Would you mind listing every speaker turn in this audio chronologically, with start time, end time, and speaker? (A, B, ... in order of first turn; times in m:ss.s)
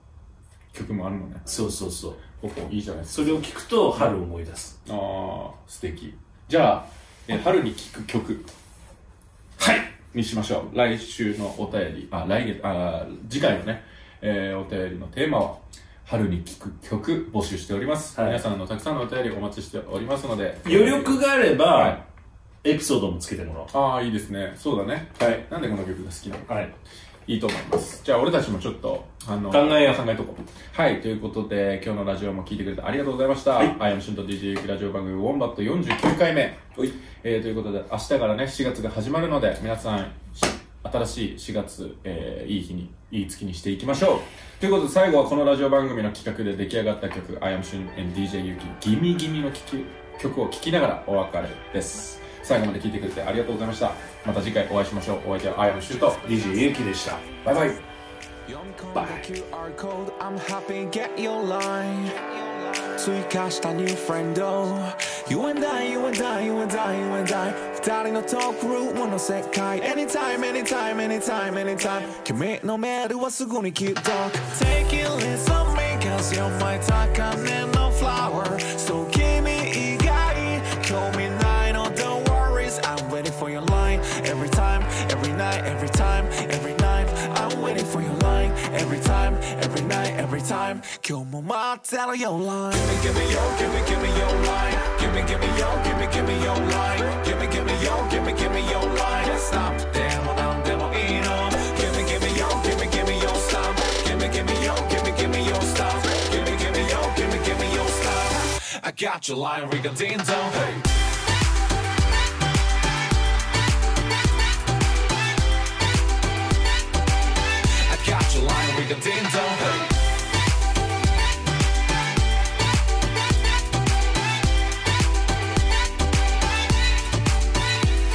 0:00.7-0:01.5 A
0:01.4-0:02.2 B
0:02.3-0:04.1 A
0:03.1-0:04.8 B
0:04.8-0:08.5 A
0:09.6-0:09.9 B
0:10.1-0:22.0 A
0:18.1-0:18.4 B
0:20.6-0:22.0 B
0:22.6-0:23.7 B
0:23.7-0:26.5 A
0:25.2-0:25.4 B
0:26.5-0:26.7 B
0:27.2-0:56.2 A
0:29.5-0:30.0 B
0:56.2-0:57.3 B
0:57.4-0:57.8 A
0:58.5-1:50.9 C
0:58.9-0:59.2 B
1:57.7-1:59.9 C